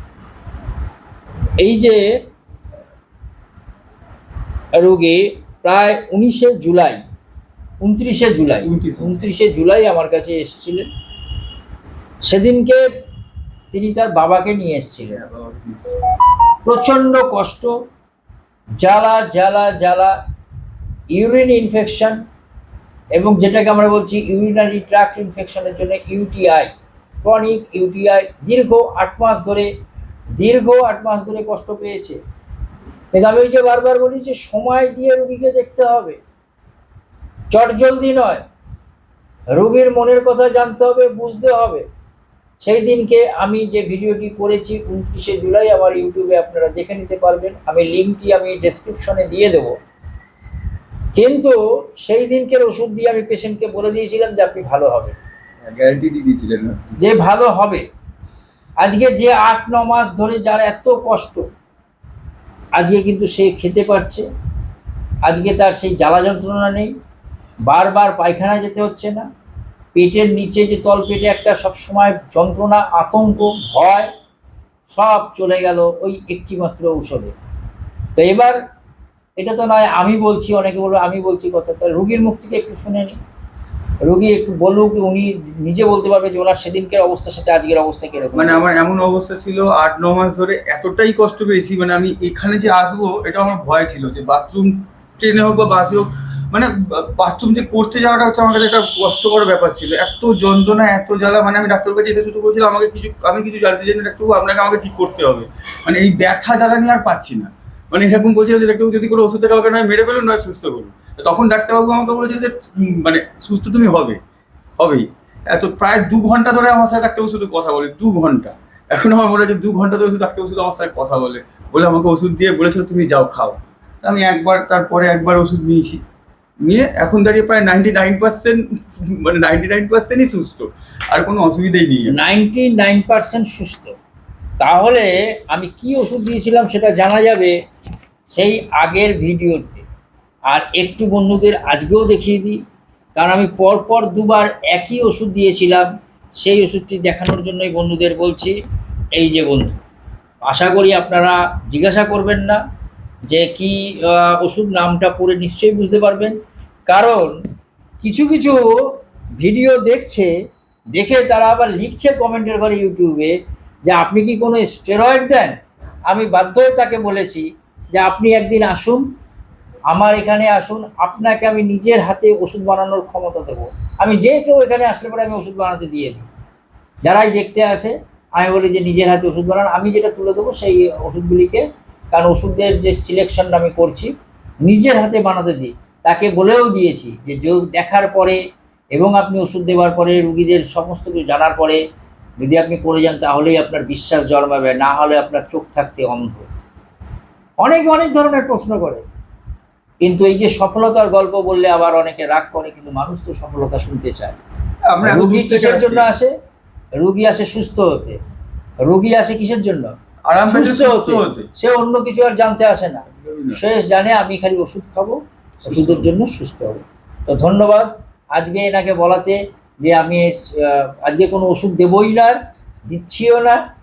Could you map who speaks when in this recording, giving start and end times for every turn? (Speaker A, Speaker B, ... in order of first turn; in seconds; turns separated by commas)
Speaker A: 1.6-2.1, Speaker A: 4.7-7.0, Speaker A: 7.8-10.9, Speaker B: 8.6-9.2, Speaker A: 12.3-12.8, Speaker A: 13.7-15.2, Speaker B: 15.1-16.0, Speaker A: 16.6-17.7, Speaker A: 18.8-20.1, Speaker A: 21.1-22.2, Speaker A: 23.2-26.7, Speaker A: 27.2-29.7, Speaker A: 30.4-32.2, Speaker A: 33.1-36.2, Speaker A: 37.5-38.4, Speaker A: 39.6-41.8, Speaker A: 42.6-49.8, Speaker A: 51.1-55.1, Speaker B: 55.6-57.0, Speaker A: 57.0-57.8, Speaker A: 58.8-61.5, Speaker A: 62.8-64.2, Speaker A: 65.3-66.9, Speaker A: 67.7-69.3, Speaker A: 69.9-74.1, Speaker A: 74.9-77.3, Speaker A: 78.2-78.6, Speaker A: 79.4-83.2, Speaker A: 84.0-88.6, Speaker B: 88.3-114.2, Speaker B: 114.8-126.0, Speaker B: 126.6-132.2, Speaker A: 132.1-133.9, Speaker A: 134.6-137.5, Speaker A: 138.3-139.8, Speaker A: 140.5-142.6, Speaker A: 143.2-145.9, Speaker A: 146.4-148.6, Speaker A: 149.2-149.8, Speaker A: 150.4-152.6, Speaker A: 153.3-156.3, Speaker A: 156.9-157.3, Speaker A: 158.0-158.7, Speaker A: 159.4-160.3, Speaker A: 160.9-163.3, Speaker A: 163.9-165.5, Speaker A: 166.1-169.1, Speaker A: 169.9-176.3, Speaker A: 177.0-184.1, Speaker A: 184.6-188.4, Speaker A: 188.9-191.8, Speaker A: 192.4-196.5, Speaker A: 197.6-199.0, Speaker A: 200.0-204.4, Speaker B: 204.9-206.1, Speaker A: 205.0-206.3, Speaker A: 207.0-208.2, Speaker A: 208.8-223.6, Speaker B: 210.3-211.5, Speaker B: 213.2-213.6, Speaker B: 215.7-216.1